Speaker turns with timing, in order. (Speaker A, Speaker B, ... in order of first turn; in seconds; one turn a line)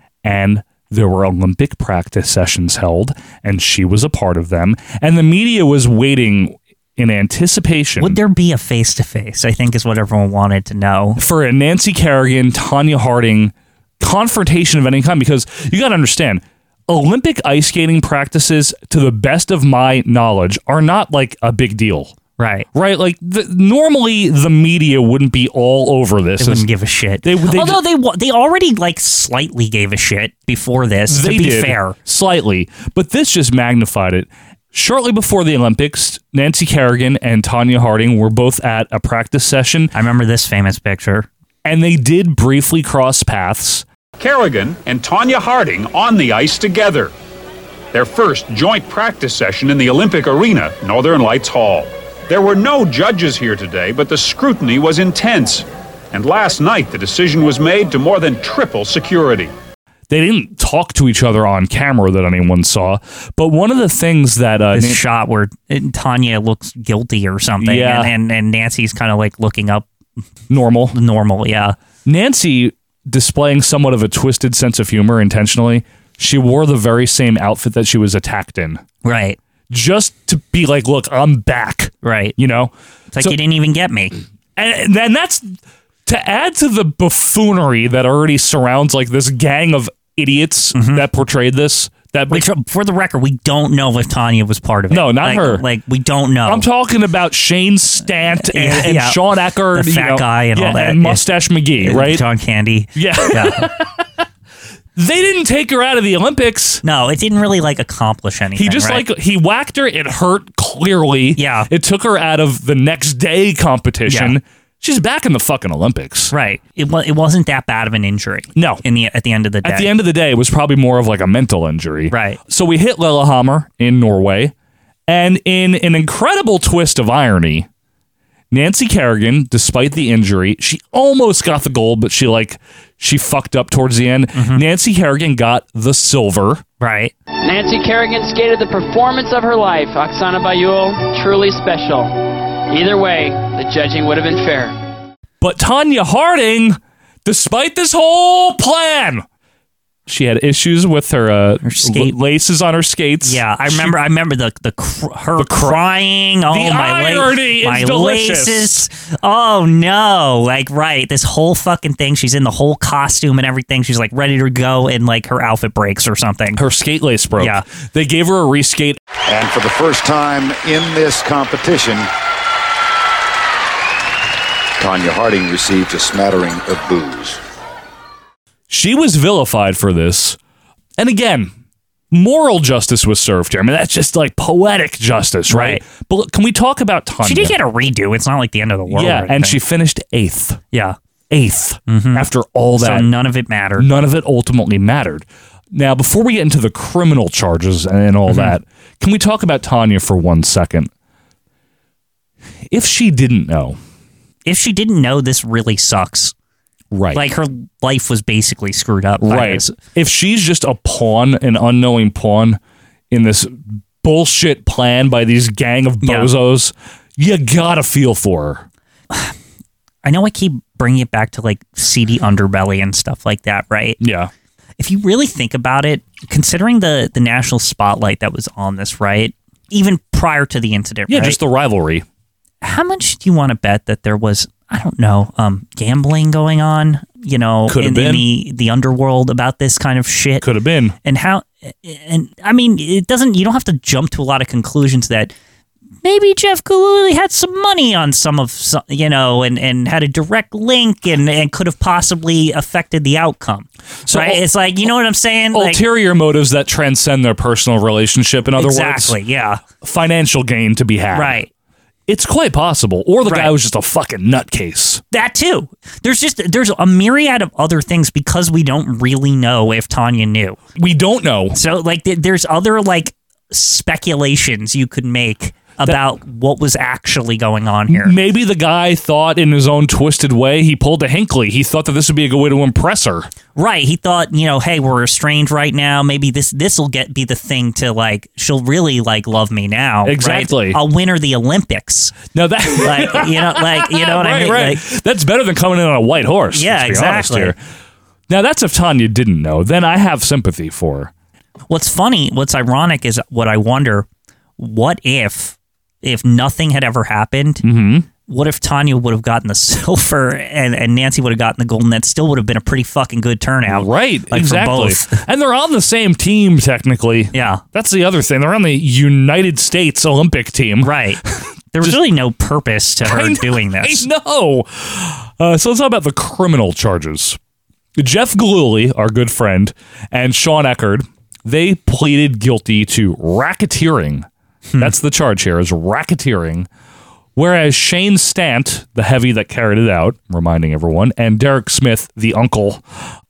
Speaker A: 0.2-8.2
Speaker B: 8.0-11.2
Speaker A: 11.2-22.1
Speaker B: 22.4-22.6
Speaker A: 22.7-26.6
Speaker B: 26.4-31.9
Speaker A: 27.2-27.8
Speaker A: 31.1-39.9
Speaker B: 39.9-41.3
Speaker A: 41.6-43.8
Speaker C: 44.2-47.1
Speaker C: 47.9-59.5
Speaker A: 60.1-65.0
Speaker B: 64.7-69.9
Speaker A: 67.6-68.1
Speaker A: 70.5-71.0
Speaker B: 70.9-71.8
Speaker A: 72.0-78.8
Speaker B: 79.0-79.4
Speaker A: 79.7-83.3
Speaker B: 82.0-82.3
Speaker B: 83.1-84.2
Speaker A: 84.5-85.5
Speaker A: 86.0-92.5
Speaker B: 90.7-91.0
Speaker B: 92.3-96.6
Speaker A: 94.9-95.6
Speaker A: 96.5-102.2
Speaker B: 98.4-99.2
Speaker B: 99.7-101.2
Speaker B: 101.8-103.6
Speaker A: 102.9-104.0
Speaker A: 105.0-106.8
Speaker B: 106.8-109.0
Speaker A: 108.5-116.3
Speaker B: 111.4-111.7
Speaker B: 114.1-114.4
Speaker B: 116.3-119.9
Speaker A: 118.5-118.8
Speaker A: 119.6-124.5
Speaker B: 122.1-122.4
Speaker A: 125.1-127.7
Speaker A: 128.5-136.6
Speaker B: 134.3-134.6
Speaker B: 136.8-137.1
Speaker D: 137.4-142.2
Speaker D: 142.7-144.8
Speaker A: 145.4-149.2
Speaker A: 150.1-154.0
Speaker B: 151.6-152.1
Speaker B: 153.2-166.6
Speaker A: 155.4-155.8
Speaker A: 156.5-158.8
Speaker A: 166.6-169.0
Speaker E: 169.2-172.1
Speaker E: 174.8-177.4
Speaker A: 178.7-180.4
Speaker A: 181.0-181.5
Speaker A: 182.1-187.5
Speaker B: 185.5-185.8
Speaker B: 187.2-189.6
Speaker A: 188.9-190.6
Speaker A: 191.3-193.1
Speaker B: 191.9-192.2
Speaker B: 192.8-193.8
Speaker A: 193.8-200.9
Speaker B: 198.3-198.5
Speaker A: 202.7-203.8
Speaker B: 204.4-206.3
Speaker A: 206.9-207.2
Speaker B: 207.1-209.8
Speaker A: 209.2-212.6
Speaker A: 213.1-218.6
Speaker B: 216.0-216.3
Speaker B: 220.0-224.0
Speaker A: 224.0-224.3
Speaker B: 224.8-231.4
Speaker A: 231.1-232.0
Speaker B: 232.6-240.4
Speaker A: 237.7-238.2
Speaker A: 240.4-240.9
Speaker B: 241.0-245.3
Speaker B: 246.0-255.8
Speaker A: 254.1-254.4
Speaker A: 255.5-259.2
Speaker B: 258.6-259.6
Speaker A: 259.8-261.4
Speaker B: 261.1-261.5
Speaker A: 262.1-265.0
Speaker B: 263.3-263.5
Speaker B: 265.1-270.6
Speaker A: 270.8-271.6
Speaker B: 271.5-278.1
Speaker A: 277.9-283.3
Speaker B: 283.5-292.2
Speaker A: 290.0-290.8
Speaker A: 292.3-297.6
Speaker B: 292.8-294.8
Speaker B: 296.5-297.5
Speaker A: 298.3-301.1
Speaker B: 301.7-304.1
Speaker B: 304.6-307.6
Speaker A: 307.6-308.1
Speaker B: 308.3-315.2
Speaker A: 313.7-322.0
Speaker B: 317.3-317.6
Speaker B: 320.8-321.2
Speaker B: 321.7-324.0
Speaker A: 323.0-327.4
Speaker A: 328.0-334.2
Speaker A: 334.8-336.7
Speaker A: 337.4-342.8